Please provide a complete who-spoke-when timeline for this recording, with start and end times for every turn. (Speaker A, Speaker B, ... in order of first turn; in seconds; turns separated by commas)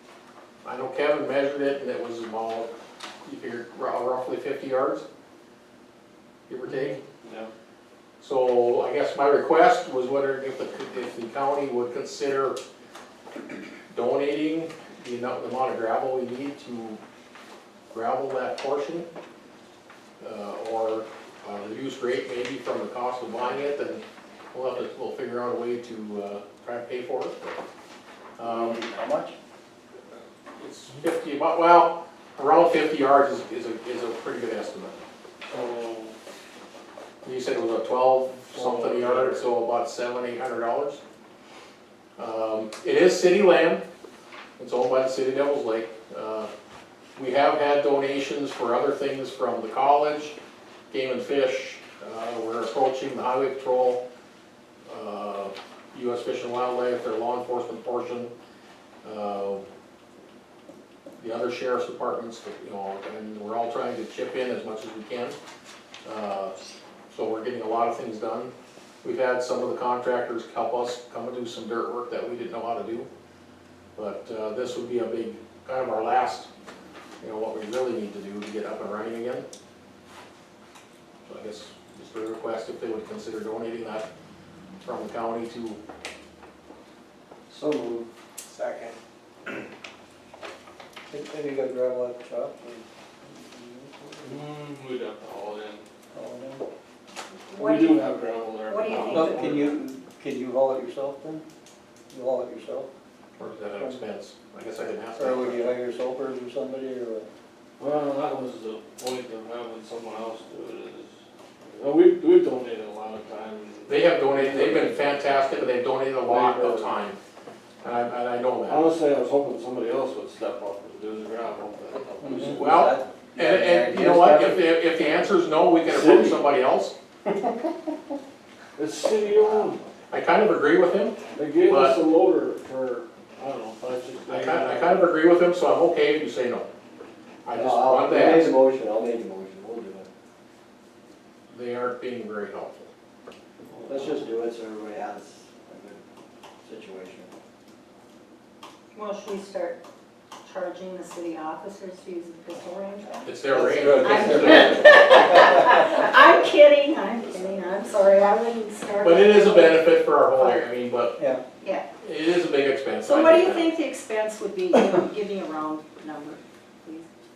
Speaker A: 0.6-2.7, Speaker A: 3.2-5.0, Speaker A: 6.5-7.0, Speaker B: 6.7-7.5, Speaker A: 8.2-12.6, Speaker A: 13.9-17.0, Speaker A: 17.9-19.1, Speaker A: 20.2-24.0, Speaker A: 24.5-27.6, Speaker A: 28.4-28.8, Speaker C: 28.4-29.4, Speaker A: 30.6-35.0, Speaker B: 35.5-36.1, Speaker A: 37.2-41.0, Speaker B: 38.5-39.4, Speaker A: 42.2-43.8, Speaker A: 44.6-46.5, Speaker A: 47.2-50.4, Speaker A: 50.9-54.0, Speaker A: 54.9-58.3, Speaker A: 59.0-59.6, Speaker A: 61.2-65.4, Speaker A: 66.0-66.6, Speaker A: 67.1-68.5, Speaker A: 69.0-73.1, Speaker A: 74.0-76.5, Speaker A: 77.2-79.5, Speaker A: 81.3-84.1, Speaker A: 84.8-85.8, Speaker C: 87.5-88.1, Speaker C: 91.1-94.4, Speaker B: 94.2-95.8, Speaker C: 96.1-96.7, Speaker D: 97.5-98.1, Speaker B: 97.5-99.7, Speaker D: 98.7-99.7, Speaker C: 99.1-101.4, Speaker C: 102.1-102.9, Speaker A: 103.4-105.7, Speaker C: 105.2-107.3, Speaker B: 107.8-115.0, Speaker A: 113.9-117.2, Speaker B: 116.2-117.0, Speaker A: 117.8-118.9, Speaker B: 118.7-122.6, Speaker C: 122.2-124.7, Speaker A: 122.4-126.9, Speaker B: 125.8-126.5, Speaker B: 128.8-129.8, Speaker A: 130.1-132.0, Speaker B: 131.3-135.1, Speaker A: 134.3-136.7, Speaker A: 137.4-138.5, Speaker C: 137.5-140.1, Speaker A: 141.5-142.9, Speaker B: 143.7-144.2, Speaker C: 143.9-146.0, Speaker C: 146.6-147.3, Speaker D: 148.9-149.8, Speaker D: 150.4-153.3, Speaker A: 153.2-155.1, Speaker C: 153.5-155.4, Speaker D: 153.9-160.7, Speaker A: 159.0-161.2, Speaker C: 161.2-161.4, Speaker D: 161.6-161.9, Speaker A: 162.0-163.7, Speaker D: 163.0-167.1